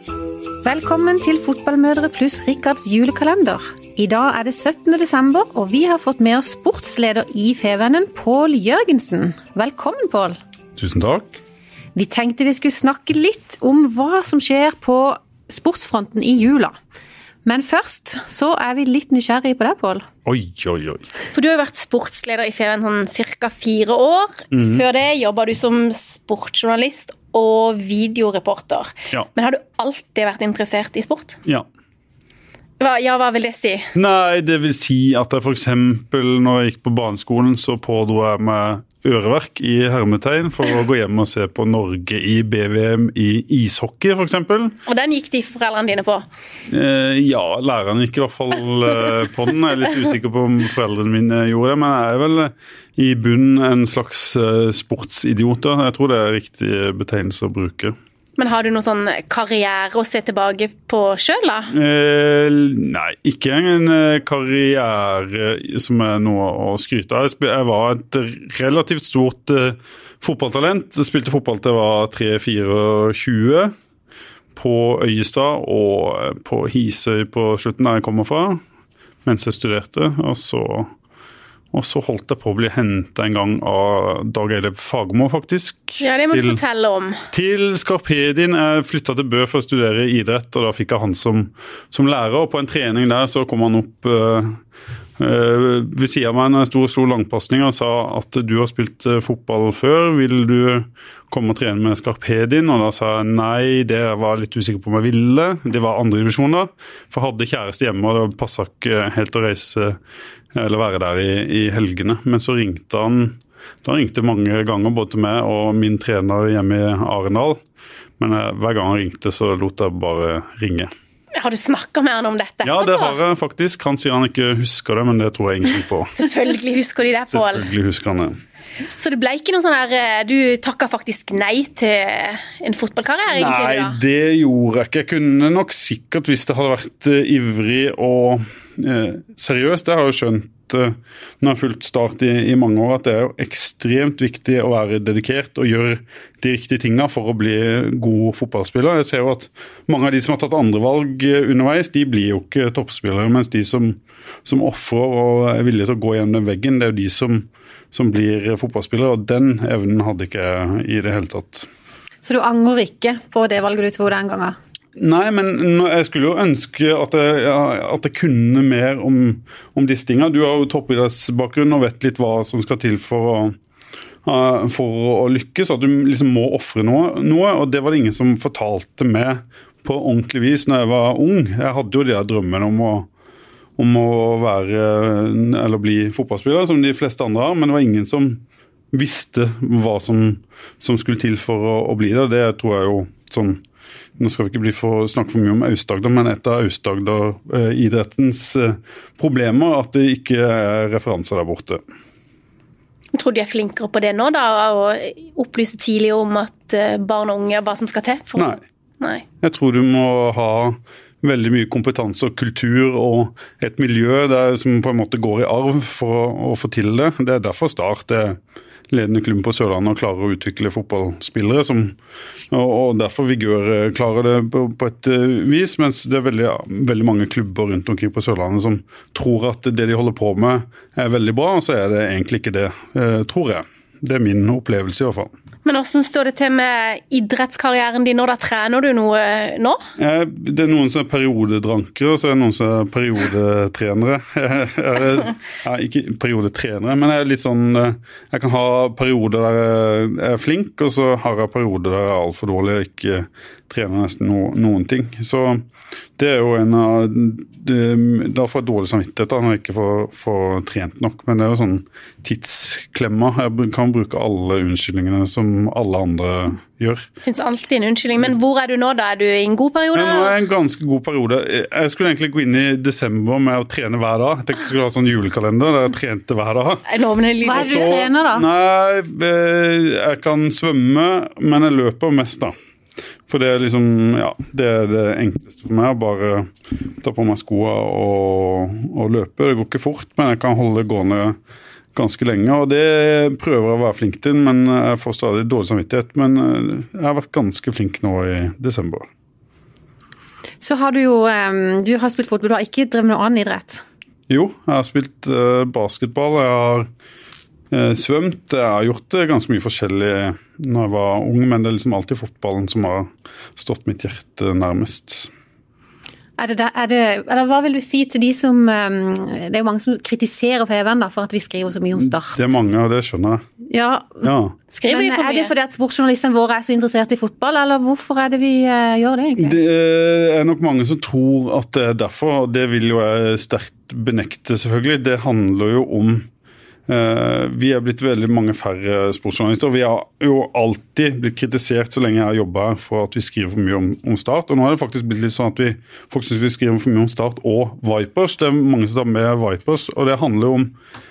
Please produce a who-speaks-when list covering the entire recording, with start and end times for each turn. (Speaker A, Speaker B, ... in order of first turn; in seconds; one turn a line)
Speaker A: 0.6-10.4
Speaker B: 10.8-11.4
Speaker A: 11.9-16.7
Speaker A: 17.4-20.1
Speaker B: 20.2-21.1
Speaker C: 21.3-31.4
Speaker B: 24.5-24.8
Speaker C: 32.8-33.9
Speaker B: 33.9-44.8
Speaker C: 44.9-46.2
Speaker B: 46.7-57.9
Speaker C: 58.4-61.7
Speaker B: 61.7-73.7
Speaker B: 74.5-78.6
Speaker B: 79.2-80.9
Speaker B: 81.7-86.6
Speaker C: 86.0-87.2
Speaker B: 87.3-94.6
Speaker B: 95.2-110.0
Speaker B: 110.5-117.6
Speaker B: 118.2-120.9
Speaker C: 121.4-123.2
Speaker B: 122.6-126.3
Speaker C: 126.2-127.7
Speaker B: 127.3-128.4
Speaker C: 129.0-134.0
Speaker B: 133.3-161.7
Speaker A: 162.2-164.6
Speaker B: 165.0-173.5
Speaker B: 174.2-183.1
Speaker B: 183.8-193.6
Speaker B: 194.2-201.8
Speaker C: 203.1-209.2
Speaker B: 209.4-218.4
Speaker B: 218.9-221.9
Speaker B: 222.5-235.3
Speaker C: 235.6-239.8
Speaker B: 240.0-255.6
Speaker B: 256.2-267.1
Speaker C: 267.2-270.4
Speaker B: 269.9-276.9
Speaker C: 276.9-278.0
Speaker A: 277.4-278.5
Speaker B: 277.5-282.5
Speaker B: 283.3-291.4
Speaker B: 291.9-299.1
Speaker A: 300.6-303.8
Speaker B: 304.3-306.9
Speaker B: 307.7-315.3
Speaker A: 316.4-322.4
Speaker B: 321.9-323.4
Speaker A: 323.7-324.3
Speaker B: 324.2-324.6
Speaker C: 324.7-325.5
Speaker A: 324.9-329.6
Speaker B: 329.4-336.3
Speaker B: 336.9-350.7